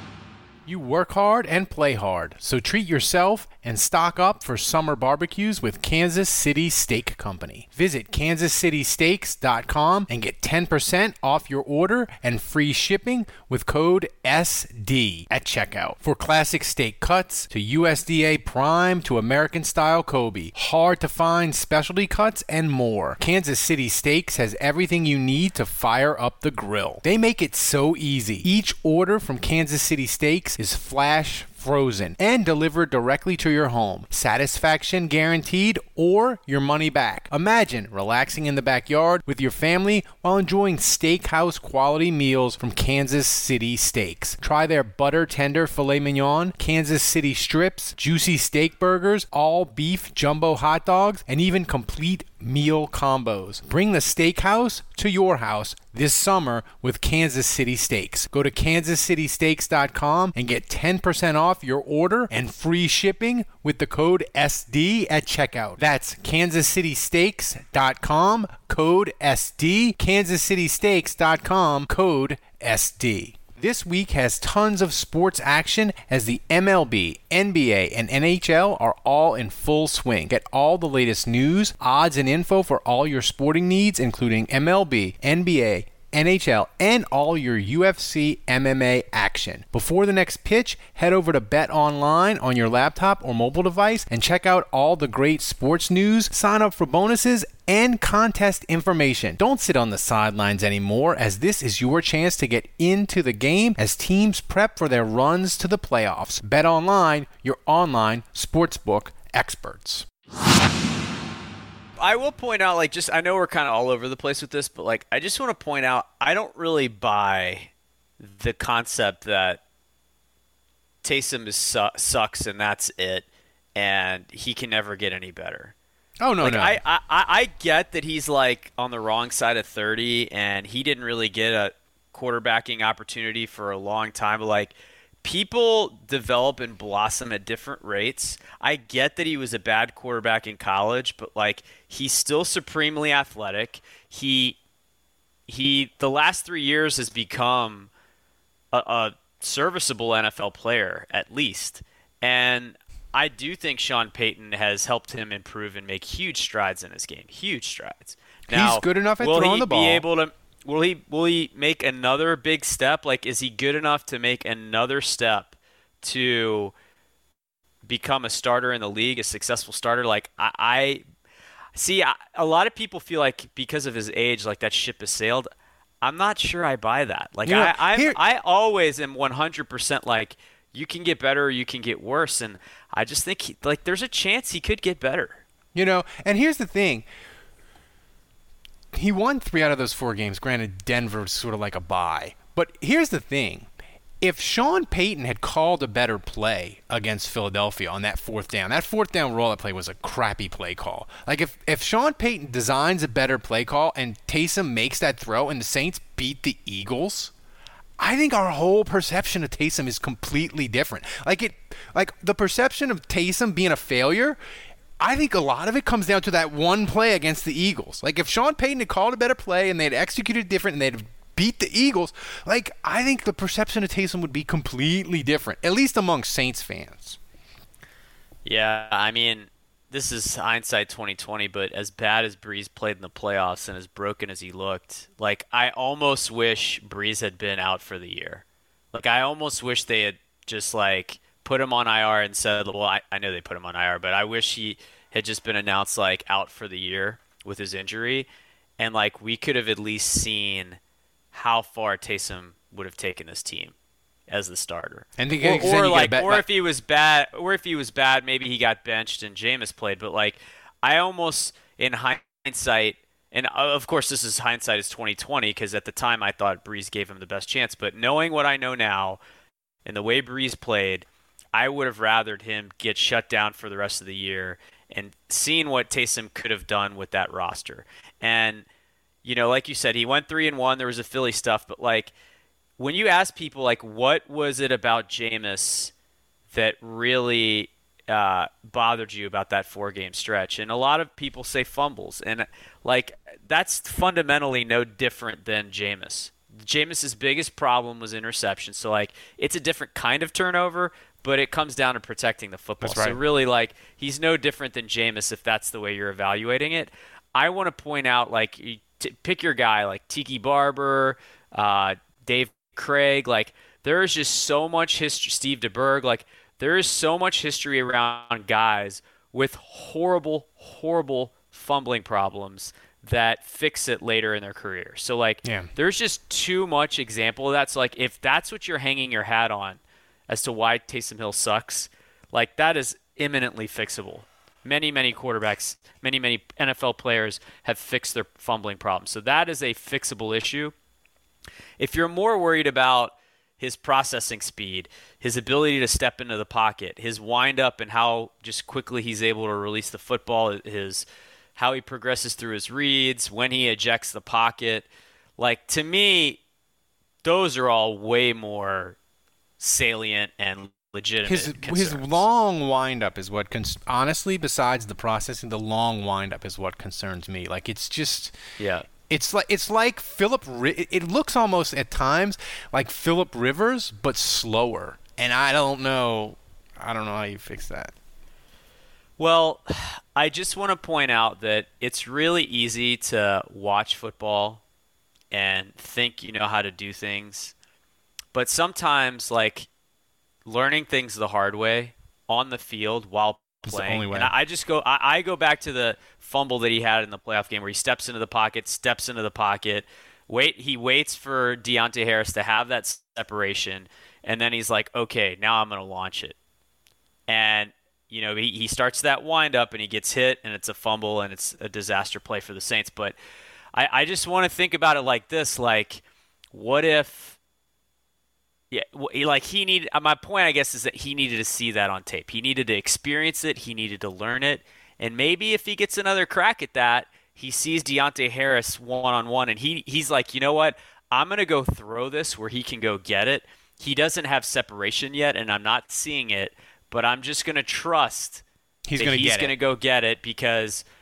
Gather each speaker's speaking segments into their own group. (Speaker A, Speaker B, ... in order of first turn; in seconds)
Speaker A: 0.7-110.1, 126.2-126.8, 158.5-160.1, 177.4-178.2, 185.7-187.1, 188.9-193.7, 194.2-207.3, 208.0-214.4, 215.0-227.2, 255.2-256.4, 302.8-303.2, 325.4-325.7, 361.2-368.4, 369.1-377.9, 393.6-394.3, 438.9-439.5
Speaker B: 112.0-119.6, 121.0-125.7, 126.4-144.6, 145.5-147.9, 148.7-166.7, 167.8-171.0, 171.7-175.5, 176.0-185.4, 228.4-248.3, 248.8-250.8, 251.3-253.7, 254.3-269.2, 269.8-278.6, 279.2-282.1, 282.8-285.9, 286.5-340.7, 341.8-356.4, 357.2-359.0, 359.6-362.2, 368.6-368.9, 379.2-384.6, 385.3-387.5, 388.3-389.7, 390.4-406.4, 407.3-413.2, 413.7-416.0, 416.5-417.4, 418.7-438.4, 439.0-440.8